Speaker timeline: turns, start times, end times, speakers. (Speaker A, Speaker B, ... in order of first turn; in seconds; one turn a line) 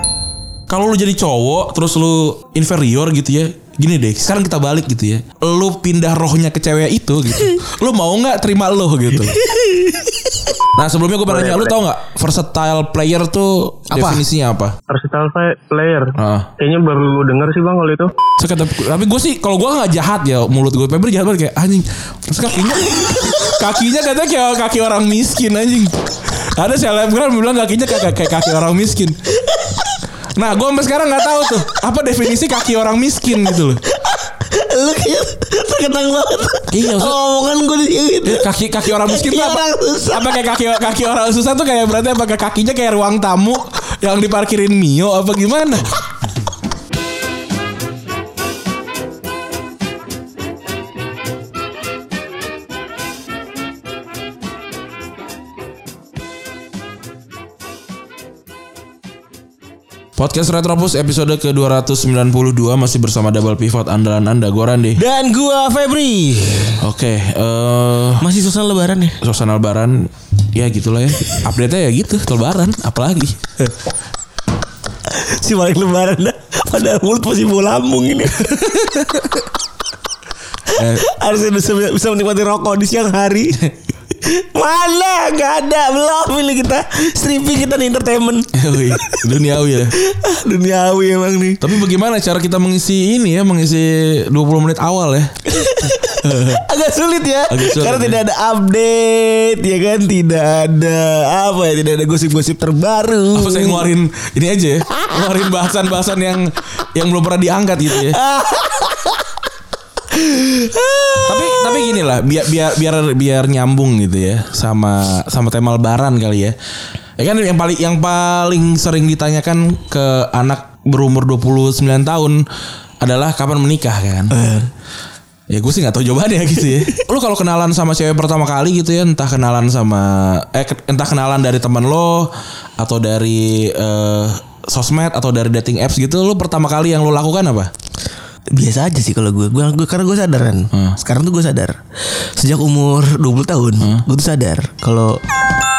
Speaker A: 0.7-9.4
Speaker B: 9.3-10.5
Speaker A: 10.7-14.7
Speaker C: 11.3-11.7
Speaker B: 13.9-14.2
Speaker C: 14.9-18.1
Speaker A: 16.2-16.5
Speaker A: 18.4-29.2
Speaker A: 30.4-33.8
Speaker B: 33.9-40.3
Speaker A: 36.7-37.2
Speaker A: 38.2-45.9
Speaker A: 60.2-65.0
Speaker B: 65.0-66.8
Speaker A: 66.8-68.2
Speaker B: 68.2-69.2
Speaker A: 69.2-73.7
Speaker B: 75.0-78.7
Speaker A: 78.4-79.3
Speaker B: 80.7-89.2
Speaker A: 80.7-81.0
Speaker A: 88.5-89.9
Speaker B: 89.9-91.7
Speaker A: 91.6-95.3
Speaker B: 95.5-103.8
Speaker A: 96.2-96.6
Speaker A: 97.5-98.2
Speaker A: 103.3-108.2
Speaker B: 107.9-109.2
Speaker B: 110.1-111.9
Speaker A: 111.2-116.5
Speaker A: 117.2-122.4
Speaker A: 123.0-124.3
Speaker B: 124.3-124.7
Speaker A: 125.5-137.7
Speaker B: 138.5-145.2
Speaker A: 140.7-141.0